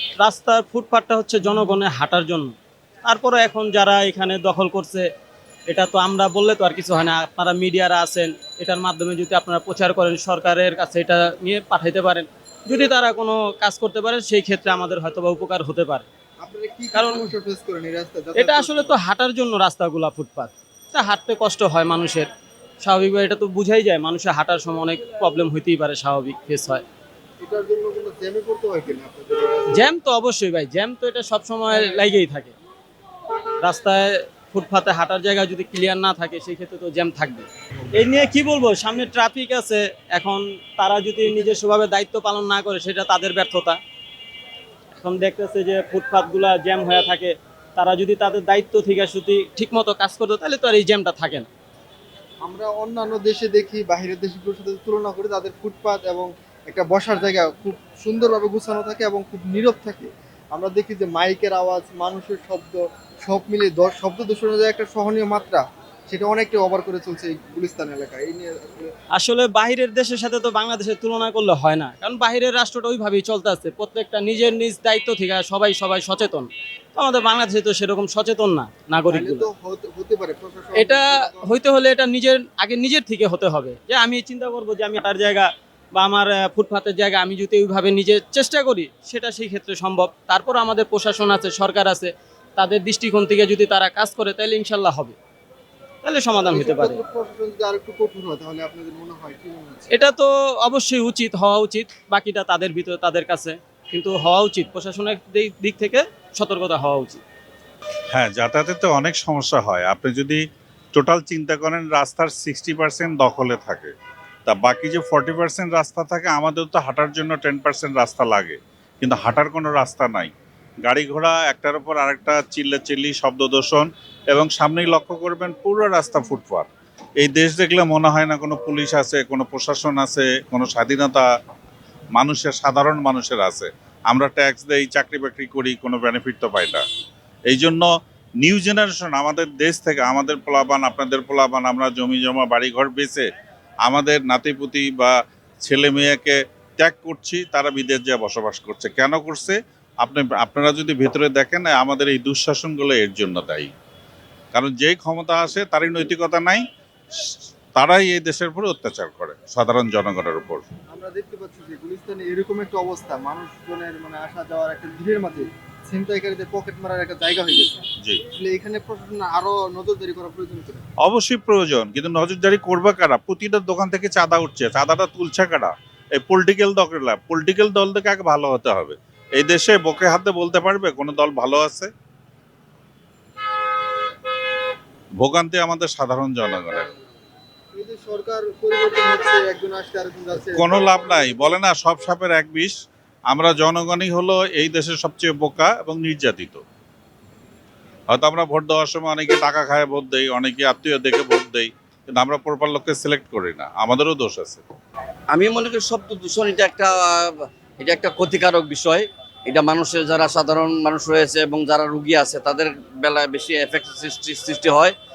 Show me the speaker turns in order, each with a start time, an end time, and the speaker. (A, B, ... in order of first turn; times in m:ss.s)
0:00.2-0:05.1 A
0:05.7-0:16.1 A
0:16.4-0:18.9 B
0:16.9-0:17.2 A
0:18.4-0:22.3 A
0:22.8-0:26.8 A
0:27.4-0:29.9 B
0:29.7-0:32.5 A
0:33.6-0:43.8 A
0:45.0-0:51.5 A
0:52.4-1:08.9 B
1:09.1-1:19.4 A
1:19.1-1:21.5 B
1:20.8-1:35.2 A
1:36.0-1:37.0 A
1:36.5-1:39.9 B
1:39.9-1:47.2 A
1:48.1-1:50.4 C
1:50.9-1:53.9 C
1:54.4-2:00.3 C
2:00.8-2:06.7 C
2:07.2-2:11.2 C
2:12.1-2:16.8 C
2:17.5-2:17.9 C
2:18.4-2:23.2 C
2:23.8-2:33.7 C
2:34.5-2:36.6 C
2:37.2-2:40.6 C
2:40.9-2:50.8 B
2:51.0-3:01.9 C
3:05.2-3:06.9 C
3:07.7-3:10.7 B
3:10.5-3:12.8 C
3:13.3-3:16.6 C
3:18.1-3:24.6 C
3:25.3-3:34.9 D